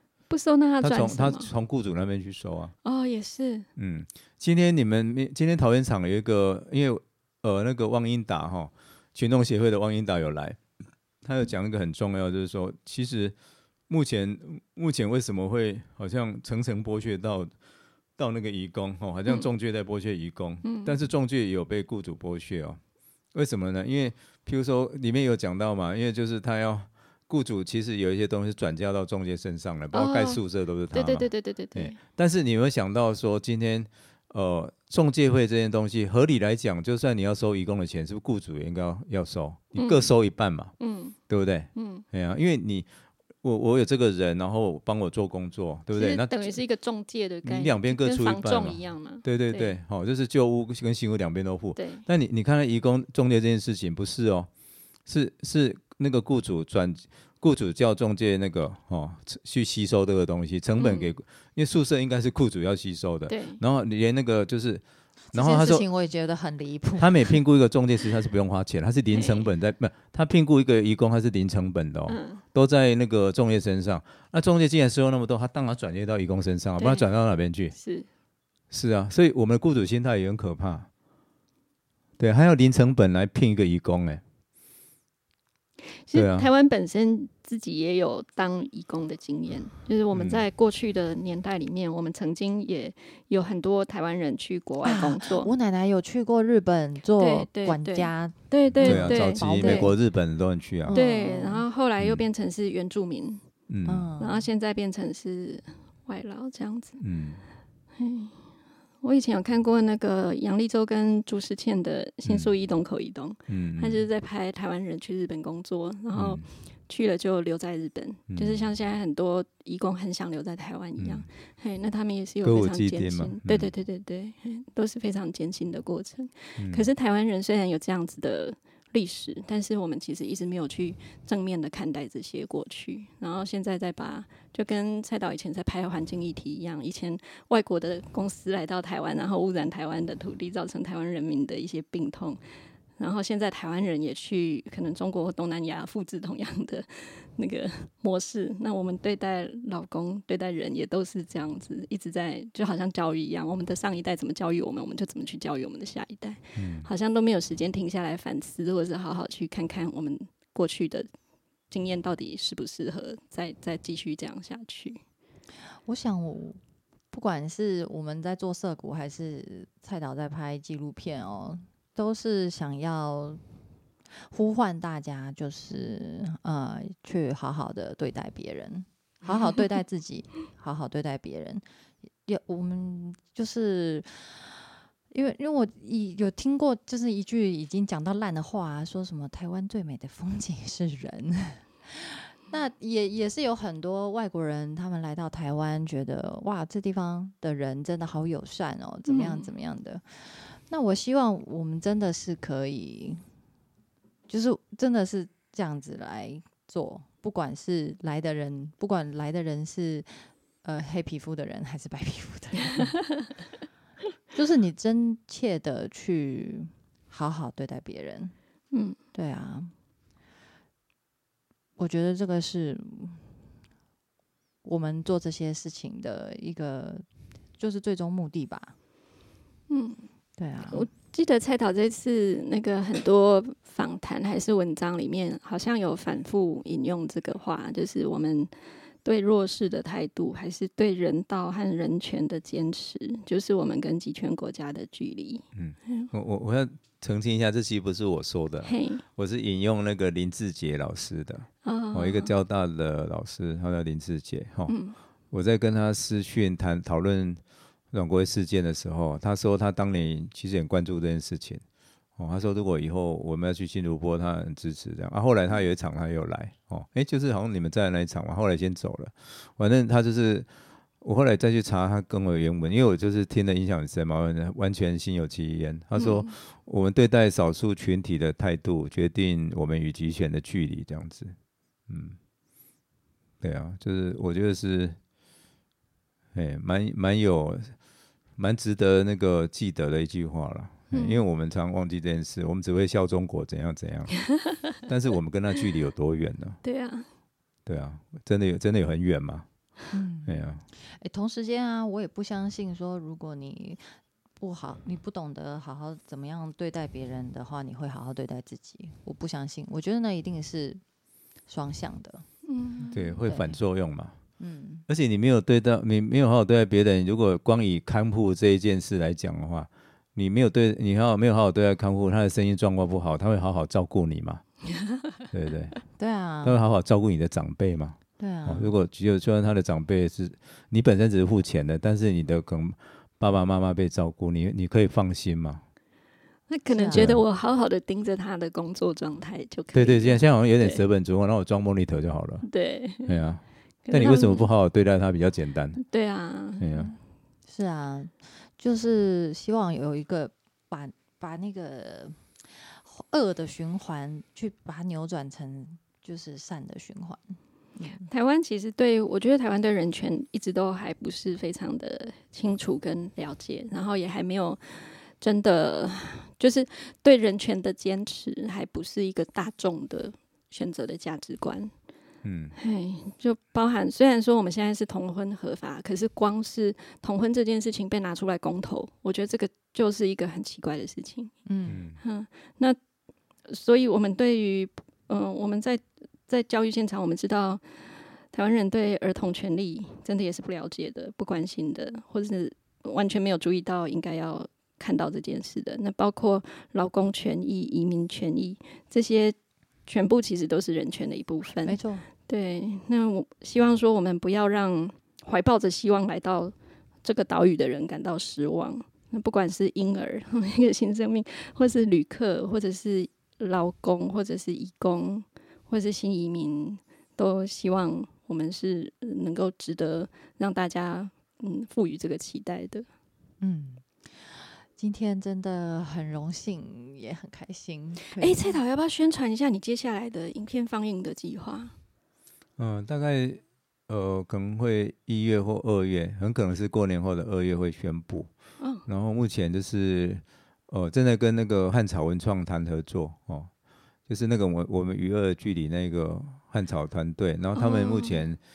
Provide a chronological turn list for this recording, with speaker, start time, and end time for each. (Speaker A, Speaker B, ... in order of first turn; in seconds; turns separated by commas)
Speaker A: 0.3-1.5, Speaker B: 0.8-2.7, Speaker A: 2.8-3.7, Speaker B: 3.8-10.7, Speaker B: 11.2-13.3, Speaker B: 13.9-17.5, Speaker B: 18.2-22.8, Speaker A: 20.6-20.9, Speaker B: 23.3-42.9, Speaker A: 29.9-32.0, Speaker A: 39.7-40.1, Speaker A: 40.8-41.2, Speaker A: 41.7-42.0, Speaker B: 43.4-46.6, Speaker A: 45.9-49.8, Speaker B: 47.4-54.5, Speaker A: 51.8-52.0, Speaker B: 55.0-65.8, Speaker A: 60.8-61.1, Speaker A: 63.3-63.6, Speaker C: 65.3-67.4, Speaker B: 67.0-77.7, Speaker A: 69.1-69.5, Speaker A: 72.1-72.4, Speaker A: 76.8-77.1, Speaker A: 77.7-78.1, Speaker B: 78.7-80.9, Speaker B: 82.2-84.2, Speaker A: 85.9-95.5, Speaker B: 86.1-86.5, Speaker B: 90.1-90.4, Speaker C: 94.8-100.0, Speaker A: 97.2-99.9, Speaker B: 98.7-101.0, Speaker C: 100.8-101.6, Speaker A: 100.9-103.5, Speaker B: 102.0-102.2, Speaker B: 103.7-104.1, Speaker C: 103.8-104.5, Speaker A: 104.2-107.0, Speaker B: 107.0-107.4, Speaker A: 108.0-108.5, Speaker A: 109.0-142.4, Speaker B: 112.2-112.5, Speaker B: 113.5-114.0, Speaker B: 116.1-116.4, Speaker B: 118.3-118.7, Speaker B: 121.0-121.3, Speaker B: 122.4-123.7, Speaker B: 126.6-126.9, Speaker A: 143.0-161.1, Speaker B: 156.6-156.9, Speaker A: 161.7-165.0, Speaker C: 165.8-173.4, Speaker C: 174.1-181.6, Speaker A: 179.2-179.6, Speaker C: 182.2-203.2, Speaker A: 199.0-199.5, Speaker C: 204.3-213.2, Speaker C: 214.3-218.3, Speaker A: 218.7-219.0, Speaker C: 219.1-219.7, Speaker C: 221.8-223.3, Speaker C: 224.6-227.0, Speaker C: 227.6-228.7, Speaker A: 229.7-230.1, Speaker C: 230.4-230.9, Speaker A: 230.7-246.1, Speaker B: 245.5-254.7, Speaker A: 248.6-249.0, Speaker A: 251.6-252.3, Speaker A: 254.7-255.0, Speaker B: 255.3-261.6, Speaker B: 262.2-270.5, Speaker B: 271.0-281.3, Speaker A: 275.9-276.3, Speaker B: 281.9-282.2, Speaker B: 283.4-285.0, Speaker B: 286.3-287.8, Speaker B: 288.4-296.6, Speaker A: 290.9-291.2, Speaker A: 296.6-297.1, Speaker B: 297.6-299.5, Speaker C: 299.9-310.8, Speaker B: 300.2-300.6, Speaker C: 311.4-313.6, Speaker A: 312.4-313.1, Speaker B: 312.9-314.2, Speaker C: 314.4-314.8, Speaker B: 314.9-324.6, Speaker B: 325.3-325.8, Speaker C: 326.0-326.6, Speaker B: 326.4-335.6, Speaker C: 328.2-328.7, Speaker A: 336.5-340.8, Speaker C: 336.7-337.2, Speaker B: 336.9-337.2, Speaker B: 339.7-345.8, Speaker A: 342.4-343.1, Speaker A: 343.8-344.5, Speaker A: 345.8-346.6, Speaker B: 346.6-346.9, Speaker C: 346.7-346.9, Speaker C: 347.5-358.1, Speaker A: 357.8-371.7, Speaker B: 372.2-372.5, Speaker A: 372.6-381.4, Speaker C: 381.4-381.8, Speaker B: 381.7-382.0, Speaker A: 382.0-382.8, Speaker A: 383.5-422.9, Speaker C: 401.6-402.1, Speaker C: 423.4-428.6, Speaker A: 428.1-431.7, Speaker B: 432.6-438.3, Speaker A: 438.6-438.8, Speaker B: 438.8-443.5, Speaker B: 444.1-448.4, Speaker A: 447.5-448.2